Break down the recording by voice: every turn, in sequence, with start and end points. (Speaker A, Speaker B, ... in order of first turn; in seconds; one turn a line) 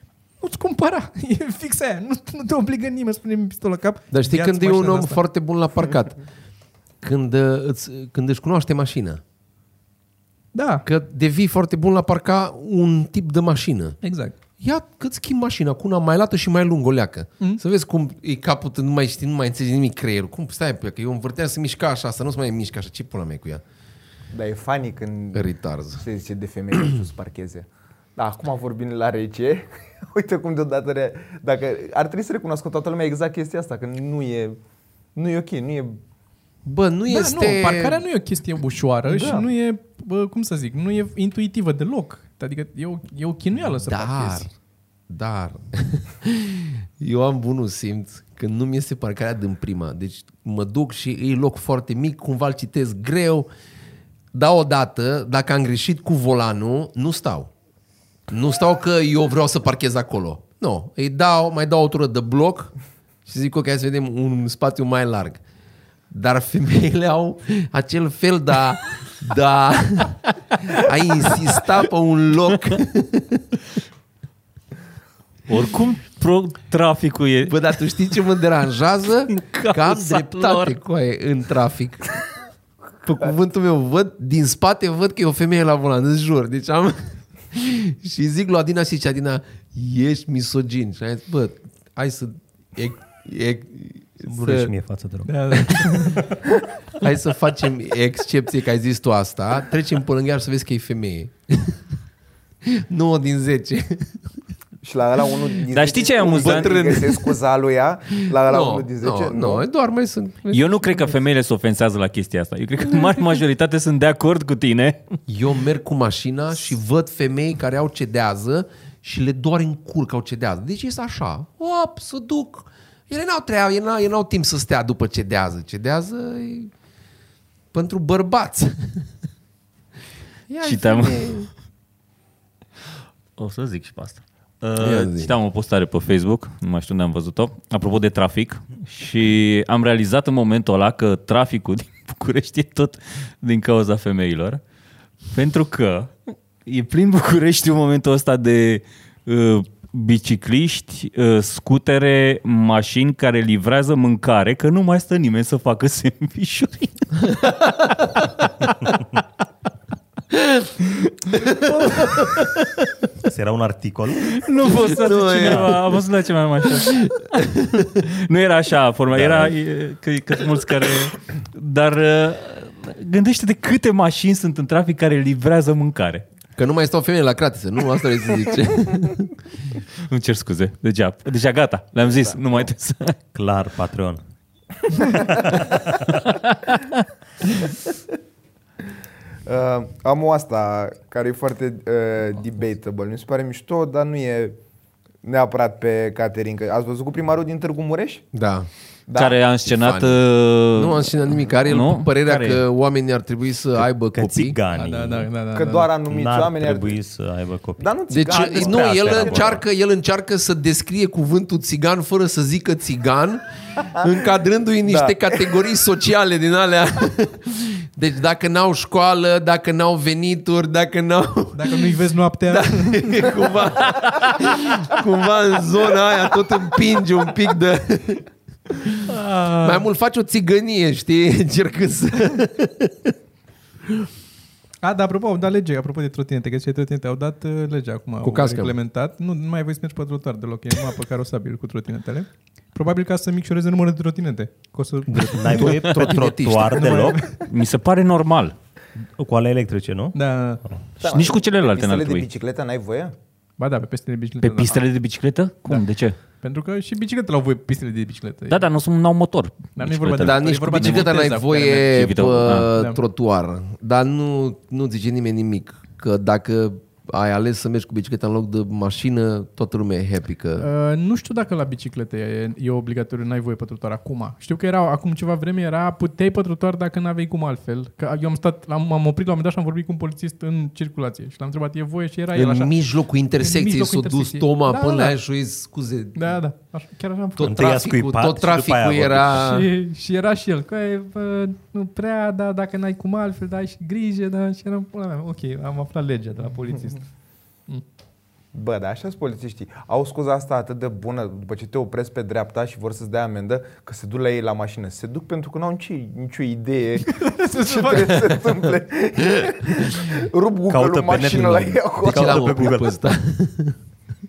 Speaker A: 0.4-5.2
Speaker B: 4.1-6.2
Speaker B: 7.0-9.2
Speaker A: 10.5-10.9
Speaker B: 10.9-14.0
Speaker A: 14.0-14.3
Speaker B: 14.6-23.6
Speaker C: 24.3-34.6
Speaker B: 25.3-26.0
Speaker C: 35.1-36.0
Speaker B: 36.6-38.0
Speaker A: 37.1-44.5
Speaker C: 39.1-39.4
Speaker B: 43.8-44.5
Speaker B: 45.1-53.5
Speaker B: 54.3-57.5
Speaker B: 58.3-62.7
Speaker B: 63.2-65.4
Speaker B: 66.1-70.2
Speaker B: 70.7-73.6
Speaker D: 75.5-77.6
Speaker B: 77.5-82.2
Speaker D: 79.3-80.8
Speaker B: 83.0-94.7
Speaker E: 94.2-96.1
Speaker A: 95.2-96.2
Speaker B: 95.5-95.9
Speaker B: 97.0-101.8
Speaker B: 102.6-104.2
Speaker C: 104.8-109.7
Speaker D: 105.7-106.8
Speaker B: 106.2-107.3
Speaker B: 108.3-111.2
Speaker D: 110.5-115.0
Speaker B: 115.3-126.7
Speaker B: 127.7-129.1
Speaker B: 130.5-131.5
Speaker D: 130.6-131.4
Speaker D: 133.4-144.6
Speaker B: 134.8-135.3
Speaker D: 145.3-157.5
Speaker B: 157.2-158.0
Speaker B: 160.3-160.7
Speaker B: 161.3-162.4
Speaker D: 162.0-162.7
Speaker E: 163.2-164.7
Speaker D: 164.3-176.2
Speaker B: 164.8-166.0
Speaker E: 165.4-165.8
Speaker B: 166.8-168.0
Speaker E: 169.1-169.6
Speaker B: 176.6-179.3
Speaker D: 180.1-183.2
Speaker E: 183.3-184.2
Speaker E: 185.2-185.5
Speaker D: 186.1-186.8
Speaker C: 189.4-194.6
Speaker C: 195.2-198.3
Speaker B: 198.3-198.7
Speaker C: 199.1-199.4
Speaker D: 199.1-202.6
Speaker B: 199.6-200.2
Speaker B: 200.7-204.6
Speaker E: 204.1-205.3
Speaker A: 204.7-205.9
Speaker C: 205.5-207.0
Speaker E: 206.1-209.6
Speaker C: 207.8-209.6
Speaker B: 208.1-233.1
Speaker C: 214.9-215.5
Speaker A: 221.6-223.4
Speaker A: 229.1-229.8
Speaker A: 234.8-245.8
Speaker B: 238.2-238.8
Speaker B: 245.1-247.1
Speaker E: 245.1-247.2
Speaker A: 246.8-247.4
Speaker D: 247.3-248.5
Speaker E: 249.2-250.8
Speaker A: 250.1-250.6
Speaker D: 251.0-252.2
Speaker C: 251.0-253.1
Speaker A: 253.6-254.8
Speaker D: 254.4-256.1
Speaker A: 256.4-258.6
Speaker D: 258.5-261.2
Speaker A: 259.8-262.0
Speaker B: 260.2-270.7
Speaker D: 261.8-262.7
Speaker A: 262.7-263.0
Speaker A: 270.6-282.7
Speaker B: 282.3-286.4
Speaker A: 283.4-285.1
Speaker A: 286.1-287.7
Speaker B: 287.4-289.7
Speaker E: 287.4-289.5
Speaker A: 289.4-297.0
Speaker C: 298.5-312.6
Speaker A: 307.0-308.6
Speaker E: 310.7-313.1
Speaker B: 312.0-313.8